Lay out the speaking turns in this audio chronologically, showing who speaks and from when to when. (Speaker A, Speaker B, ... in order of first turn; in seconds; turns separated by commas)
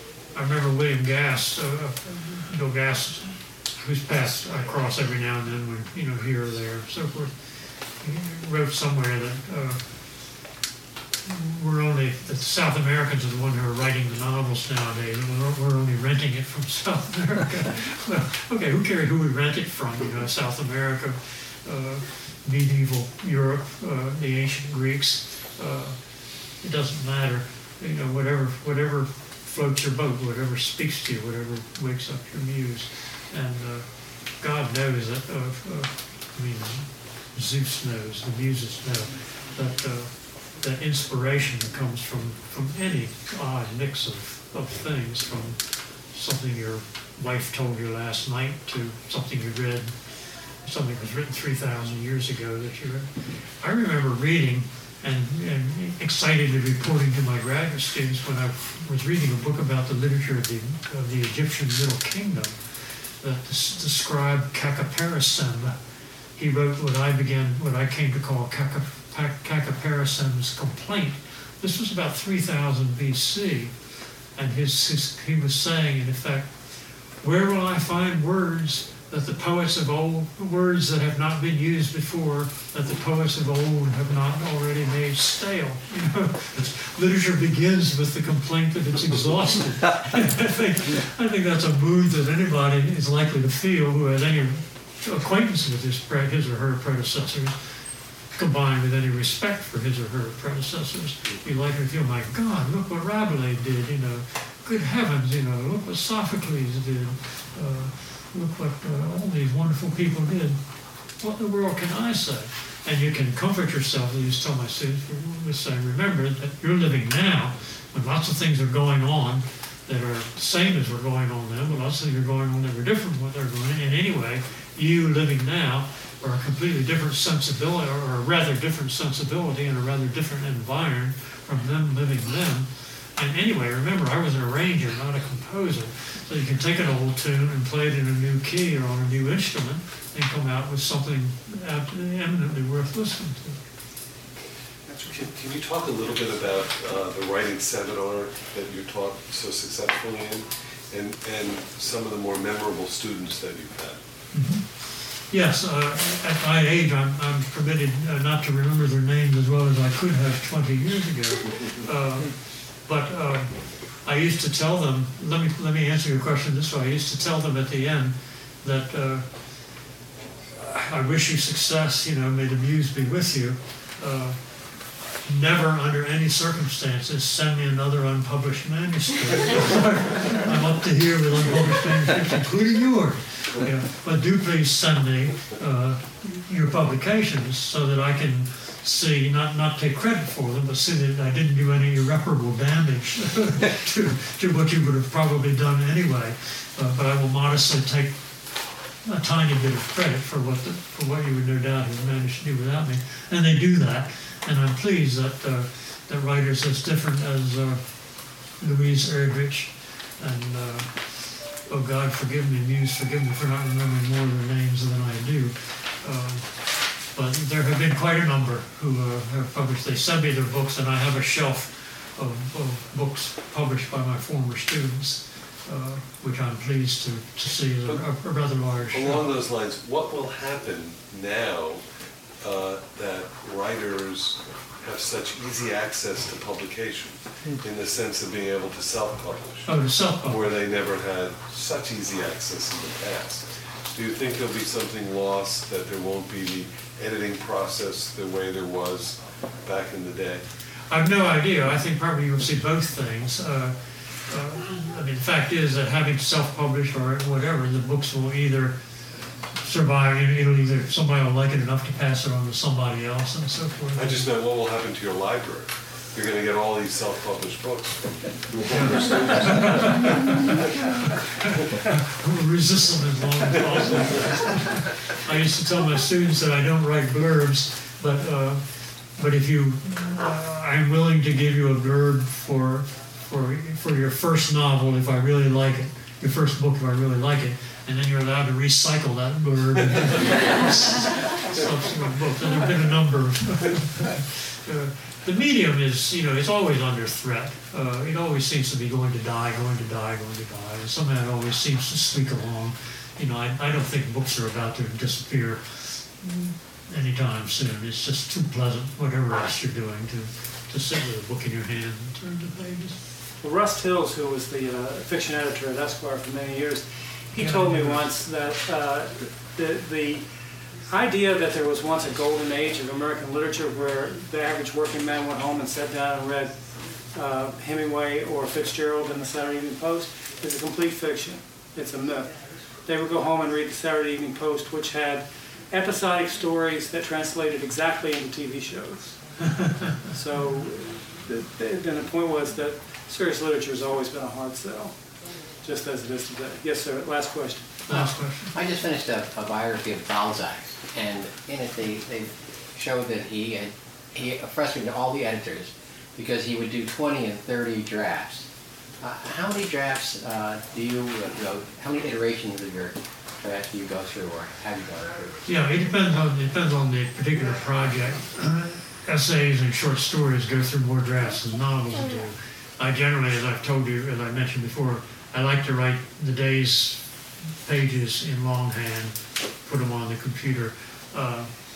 Speaker A: 0.3-7.4, Speaker A: 8.0-9.8, Speaker A: 11.2-26.0, Speaker A: 26.6-45.6, Speaker A: 46.1-49.9, Speaker A: 50.6-62.6, Speaker A: 63.2-65.8, Speaker A: 66.3-73.7, Speaker A: 74.3-76.6, Speaker A: 77.2-97.6, Speaker A: 98.3-110.6, Speaker A: 111.2-143.6, Speaker B: 144.9-145.3, Speaker C: 145.1-154.0, Speaker A: 154.3-169.3, Speaker A: 170.5-174.4, Speaker A: 175.2-198.2, Speaker A: 199.0-207.8, Speaker A: 208.6-216.5, Speaker A: 217.1-229.2, Speaker C: 228.9-231.8, Speaker C: 232.4-239.7, Speaker A: 239.7-240.5, Speaker C: 240.2-250.4, Speaker A: 250.9-253.8, Speaker A: 254.3-258.8, Speaker A: 259.6-264.3, Speaker C: 263.9-268.3, Speaker A: 268.7-278.6, Speaker C: 269.0-269.4, Speaker A: 279.1-313.0, Speaker B: 313.4-320.2, Speaker A: 317.4-318.1, Speaker B: 320.8-326.6, Speaker B: 327.1-339.2, Speaker A: 339.6-339.9, Speaker B: 340.1-344.9, Speaker B: 345.6-347.9, Speaker A: 347.9-348.5, Speaker D: 348.5-358.5, Speaker D: 359.0-365.4, Speaker A: 365.4-377.1, Speaker A: 377.6-381.5